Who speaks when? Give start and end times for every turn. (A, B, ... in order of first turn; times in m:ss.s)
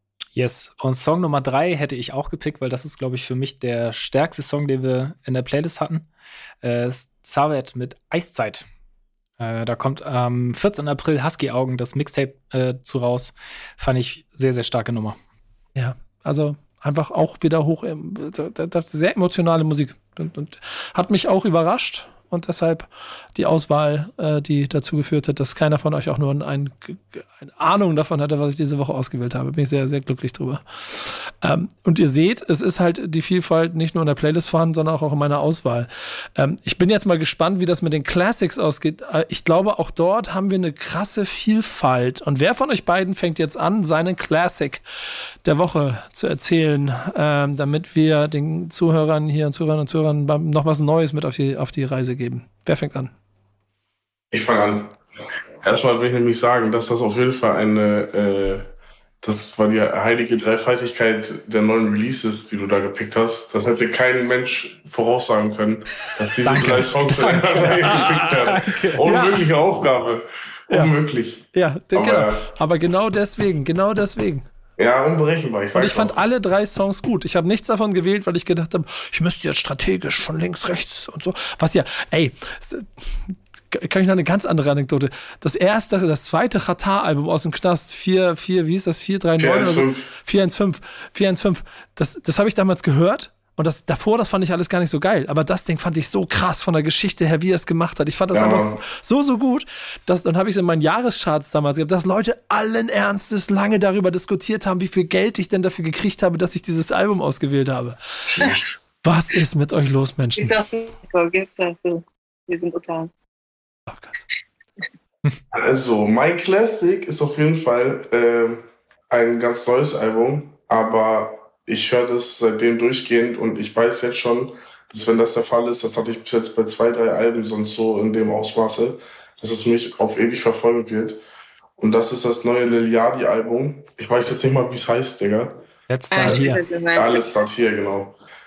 0:00.3-0:06.1 A
0:06.6-0:08.6 A
0:09.4-0:15.2 A
0:15.8-0:44.8 B
0:45.4-0:53.1 B
0:54.3-0:55.0 C
0:55.6-0:58.7 C
0:59.2-1:12.4 C
1:06.4-1:09.0 A
1:07.9-1:09.4 B
1:11.5-1:14.4 B
1:14.8-1:16.2 C
1:15.7-1:48.4 B
1:29.4-1:30.1 C
1:38.3-1:38.8 C
1:48.3-1:48.7 C
1:49.0-1:50.6 B
1:50.4-1:53.1 D
1:53.9-1:54.2 B
1:55.5-2:11.2 C
2:11.8-2:15.6 C
2:15.9-2:16.6 A
2:16.1-2:17.4 D
2:16.2-2:18.2 C